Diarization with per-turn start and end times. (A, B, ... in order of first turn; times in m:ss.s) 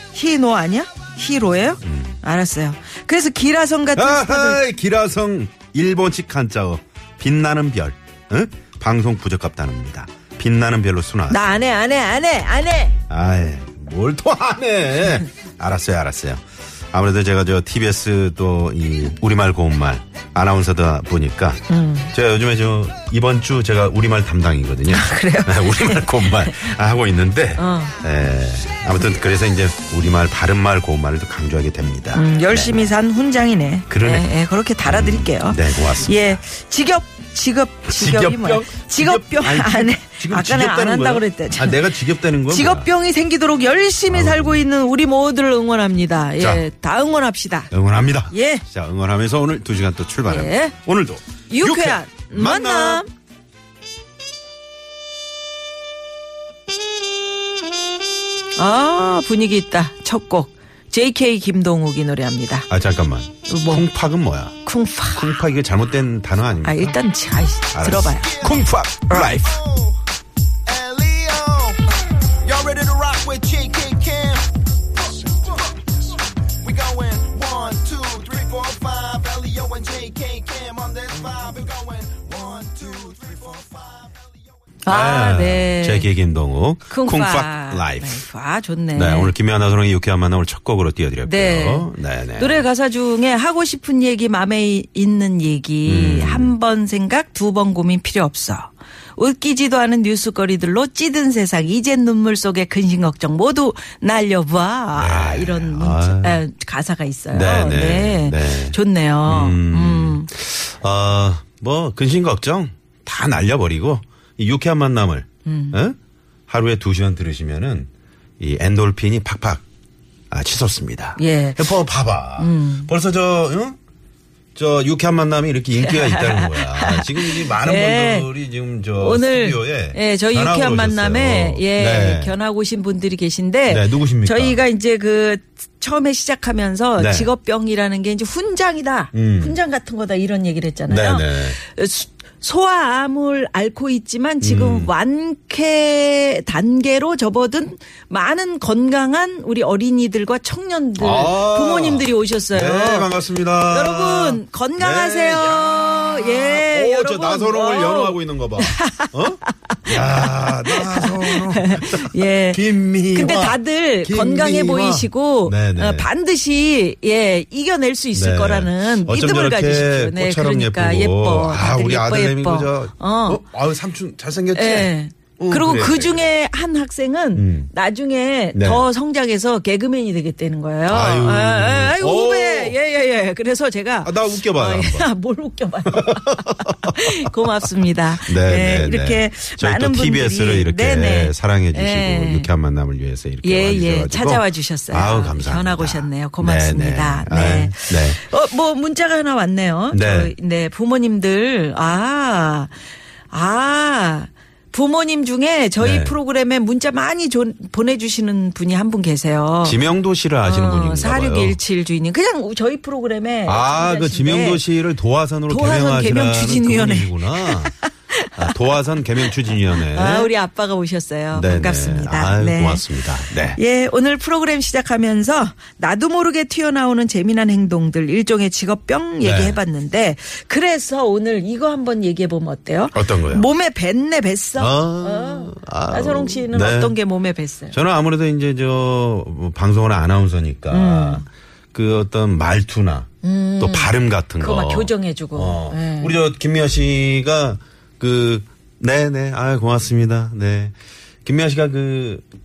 0:00.1-0:04.6 A
0:01.8-0:02.2 B
0:04.0-0:11.4 B
0:11.3-0:13.0 A
0:13.1-0:32.9 B
0:21.7-0:22.1 A
0:24.9-0:26.7 A
0:27.6-0:28.0 A
0:32.1-0:41.9 A
0:33.9-0:34.3 B
0:34.8-0:36.4 B
0:37.8-0:42.9 B
0:42.4-0:47.7 A
0:44.1-0:44.6 B
0:46.4-0:46.6 B
0:47.7-0:53.0 B
0:48.3-0:48.6 A
0:50.2-0:50.7 A
0:51.5-0:53.1 A
0:58.6-1:02.7 A
1:02.7-1:04.5 B
1:03.4-1:03.9 A
1:04.6-1:05.4 A
1:05.1-1:07.0 B
1:06.6-1:09.4 A
1:07.7-1:09.7 B
1:10.7-1:11.8 C
1:12.5-1:14.4 C
1:12.6-1:13.0 B
1:16.7-1:24.0 C
1:16.9-1:18.5 B
1:24.8-1:26.1 A
1:24.9-1:28.2 B
1:26.9-1:29.3 A
1:28.9-1:32.6 B
1:31.2-1:50.3 A
1:35.8-1:36.5 B
1:44.9-1:46.4 B
1:47.3-1:56.0 B
1:55.4-1:55.8 A
1:56.5-1:57.9 B
1:58.4-1:59.6 B
2:00.3-2:03.8 B
2:01.2-2:01.7 A
2:02.4-2:02.9 A
2:04.5-2:12.3 B
2:05.8-2:08.3 A
2:09.0-2:53.4 A
2:13.7-2:14.6 B
2:17.0-2:17.3 B
2:19.1-2:19.6 B
2:20.9-2:21.6 B
2:24.4-2:24.9 B
2:31.0-2:46.1 B
2:48.1-2:56.2 B
2:54.5-3:12.5 A
2:57.3-2:57.7 B
2:58.5-2:58.8 B
3:00.9-3:02.8 B
3:04.0-3:05.1 B
3:05.9-3:07.3 B
3:08.2-3:18.2 B
3:13.4-3:22.7 A
3:19.9-3:20.3 B
3:23.3-3:29.8 A
3:25.8-3:26.2 B
3:29.6-3:31.6 B
3:30.4-3:34.6 A
3:33.4-3:37.7 B
3:35.5-3:38.3 A
3:38.4-3:40.3 B
3:39.7-3:57.8 A
3:41.3-3:43.6 B
3:49.2-3:49.6 B
3:52.9-3:53.4 B
3:54.6-3:57.0 B
3:57.7-4:03.1 B
4:00.7-4:01.2 A
4:03.2-4:06.2 A
4:03.6-4:12.2 B